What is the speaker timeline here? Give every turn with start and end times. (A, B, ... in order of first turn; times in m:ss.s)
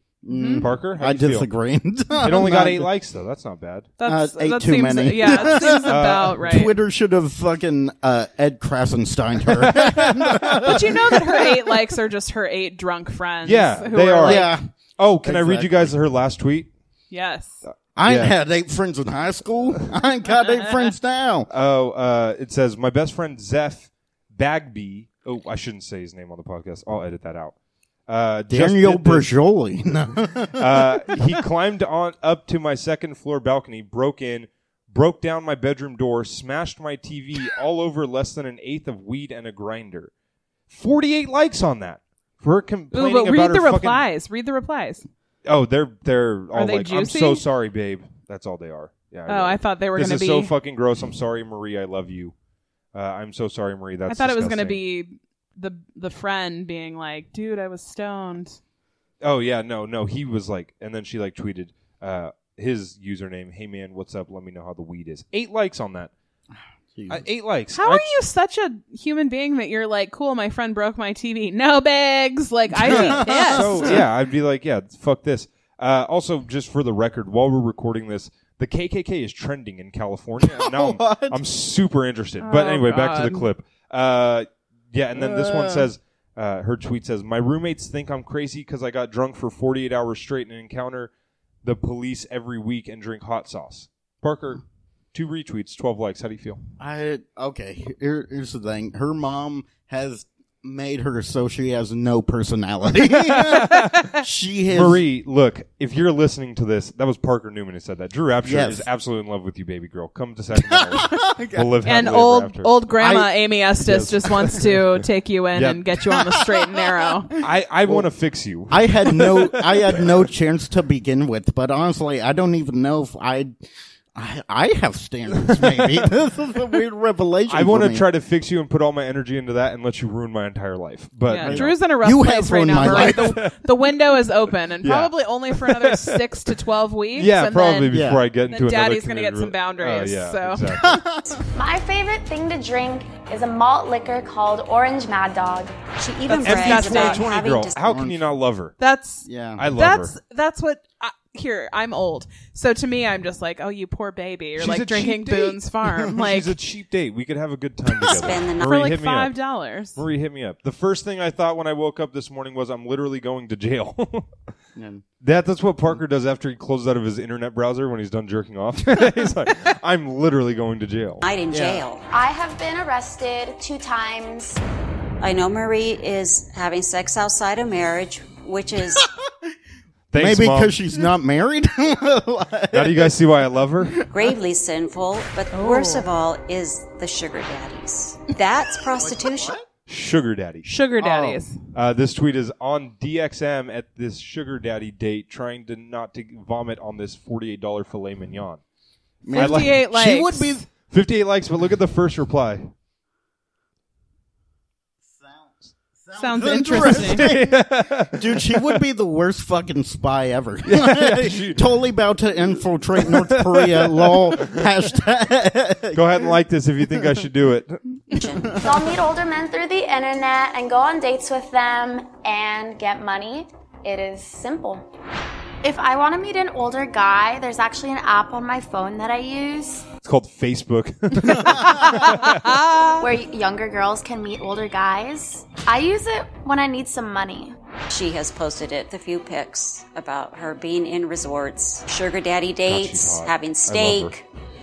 0:00.2-0:02.9 A
0:00.3-0:00.7 B
0:00.6-0:01.5 C
0:02.2-0:03.9 C
0:04.0-0:06.7 B
0:04.0-0:11.7 A
0:05.2-0:06.4 C
0:09.6-0:10.8 C
0:10.6-0:14.5 B
0:13.4-0:16.7 C
0:14.2-0:14.6 A
0:15.2-0:16.0 A
0:17.1-0:17.6 B
0:18.0-0:21.5 A
0:18.0-0:18.3 C
0:20.5-0:20.8 B
0:21.5-0:27.5 C
0:28.1-0:29.4 C
0:28.5-0:31.2 A
0:30.6-0:40.1 C
0:40.7-0:44.0 C
0:42.9-0:45.0 B
0:45.4-0:52.3 C
0:46.5-0:47.4 B
0:49.3-0:50.5 B
0:52.9-0:54.8 C
0:54.1-0:58.6 B
0:59.2-1:06.1 C
1:06.9-1:07.2 A
1:07.1-1:08.1 C
1:07.7-1:14.0 B
1:12.7-1:14.1 A
1:12.9-1:31.1 C
1:20.4-1:21.4 A
1:22.4-1:23.4 B
1:25.1-1:25.9 A
1:31.6-1:34.6 C
1:35.1-1:36.6 C
1:36.8-1:45.0 A
1:43.2-1:44.2 C
1:44.7-1:52.7 C
1:48.4-1:48.9 A
1:50.5-1:51.7 A
1:51.8-1:57.3 B
1:53.0-1:53.3 A
1:53.8-1:54.8 C
1:55.5-1:55.8 C
1:56.1-1:56.8 A
1:57.4-2:00.1 C
1:58.7-2:03.5 A
2:04.1-2:08.1 A
2:05.4-2:06.0 C
2:07.5-2:11.8 C
2:11.3-2:20.6 B
2:11.4-2:13.4 A
2:12.8-2:13.6 C
2:14.8-2:16.5 C
2:17.2-2:21.0 C
2:17.9-2:18.2 A
2:20.7-2:21.4 A
2:21.5-2:25.8 D
2:26.0-2:27.8 E
2:26.3-2:27.2 B
2:26.4-2:28.8 C
2:27.8-2:28.2 A
2:28.8-2:36.5 B
2:29.2-2:29.7 A
2:29.6-2:30.1 C
2:34.6-2:39.3 C
2:38.0-2:38.8 E
2:38.6-2:40.0 B
2:39.9-2:44.3 C
2:44.8-2:45.0 A
2:45.2-2:51.2 C
2:51.2-2:52.0 E
2:51.5-2:51.8 A
2:52.1-2:54.6 D
2:55.2-2:59.0 E
3:00.1-3:00.8 C
3:00.2-3:03.2 A
3:02.7-3:04.0 C
3:04.1-3:09.6 E
3:05.5-3:06.0 B
3:09.0-3:09.6 A
3:09.9-3:10.7 C
3:10.6-3:11.6 B
3:11.0-3:11.4 A
3:11.7-3:18.6 C
3:19.2-3:19.8 A
3:19.3-3:22.7 C
3:19.3-3:20.5 B
3:25.0-3:36.3 A
3:26.2-3:27.3 B
3:26.8-3:28.8 C
3:30.7-3:31.7 C
3:33.0-3:34.7 C
3:35.9-3:37.8 C
3:36.9-3:37.2 A
3:38.1-3:38.6 E
3:38.6-3:44.9 D
3:45.6-3:49.9 D
3:50.0-3:52.5 C
3:51.4-3:53.0 B
3:53.0-3:57.5 D
3:57.9-4:04.2 E
4:02.7-4:04.2 C